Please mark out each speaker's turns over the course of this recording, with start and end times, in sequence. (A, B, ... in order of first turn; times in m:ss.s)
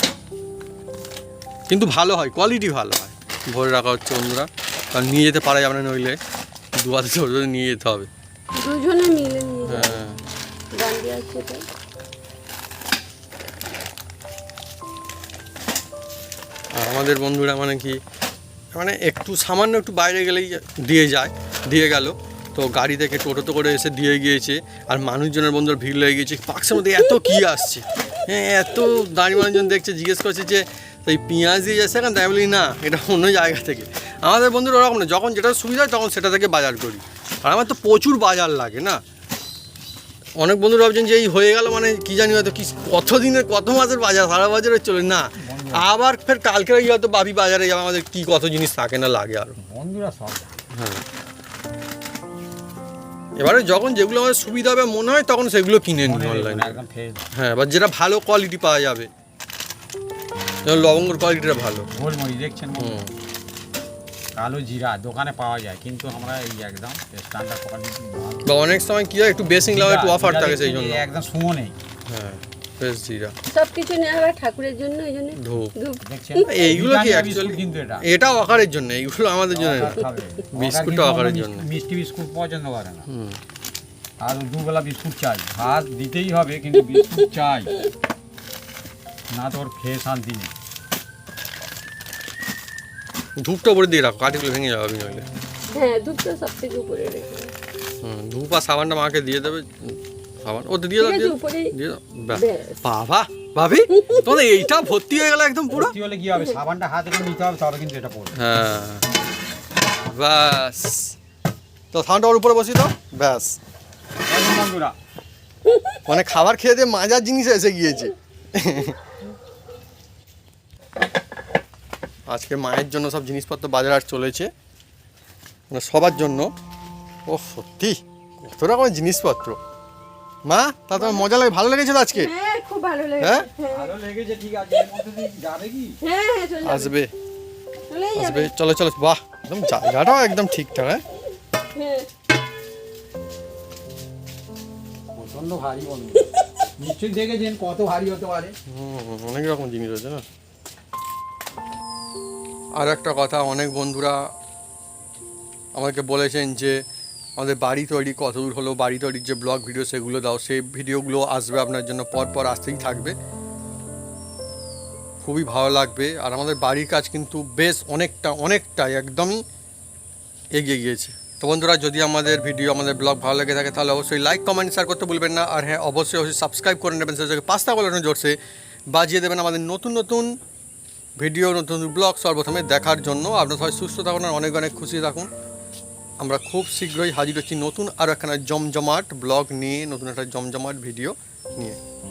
0:01.7-0:06.2 A
0:06.8-0:08.1 A
0:08.6-0:10.0 B
0:09.7-0:10.2 A
0:10.7-0:11.7 B
0:16.8-0:18.0 A
0:18.8-0:39.0 A
0:40.4-0:49.6 A
0:45.4-0:45.9 C
0:49.6-0:50.6 C
0:50.7-0:51.0 A
0:53.4-0:56.8 A
0:56.0-0:57.2 C
0:57.4-0:59.1 A
1:00.7-1:01.9 A
1:01.9-1:03.1 C
1:02.8-1:03.1 A
1:04.4-1:08.5 C
1:08.4-1:11.0 A
1:09.7-1:11.8 C
1:12.1-1:13.3 A
1:13.5-1:16.6 B
1:15.4-1:15.7 A
1:16.0-1:18.0 C
1:16.5-1:20.0 A
1:19.5-1:23.1 C
1:20.5-1:21.6 A
1:23.1-1:23.4 A
1:24.2-1:27.8 C
1:29.3-1:30.5 C
1:33.4-1:35.2 A
1:35.7-1:37.5 B
1:38.0-1:46.0 A
1:41.0-1:41.7 B
1:42.3-1:42.8 B
1:44.0-1:44.3 B
1:45.7-1:48.4 C
1:48.4-1:49.0 A
1:50.1-1:51.2 A
1:51.9-1:53.6 A
1:54.3-1:55.0 C
1:56.1-1:59.0 A
2:02.3-2:04.5 A
2:05.7-2:06.5 A
2:07.3-2:09.6 A
2:10.5-2:12.3 A
2:11.0-2:11.3 B
2:12.1-2:13.9 B
2:13.2-2:13.5 A
2:13.7-2:16.0 C
2:16.0-2:16.9 B
2:16.6-2:17.1 A
2:17.9-2:18.5 B
2:18.2-2:21.0 A
2:21.7-2:22.1 B
2:25.2-2:26.2 C
2:26.8-2:28.6 C
2:28.7-2:30.2 A
2:32.8-2:34.2 A
2:35.8-2:36.8 A
2:37.4-2:43.2 A
2:45.2-2:49.4 A
2:50.5-2:58.4 A
2:58.9-3:00.4 A
3:01.2-3:05.3 A
3:06.2-3:11.8 A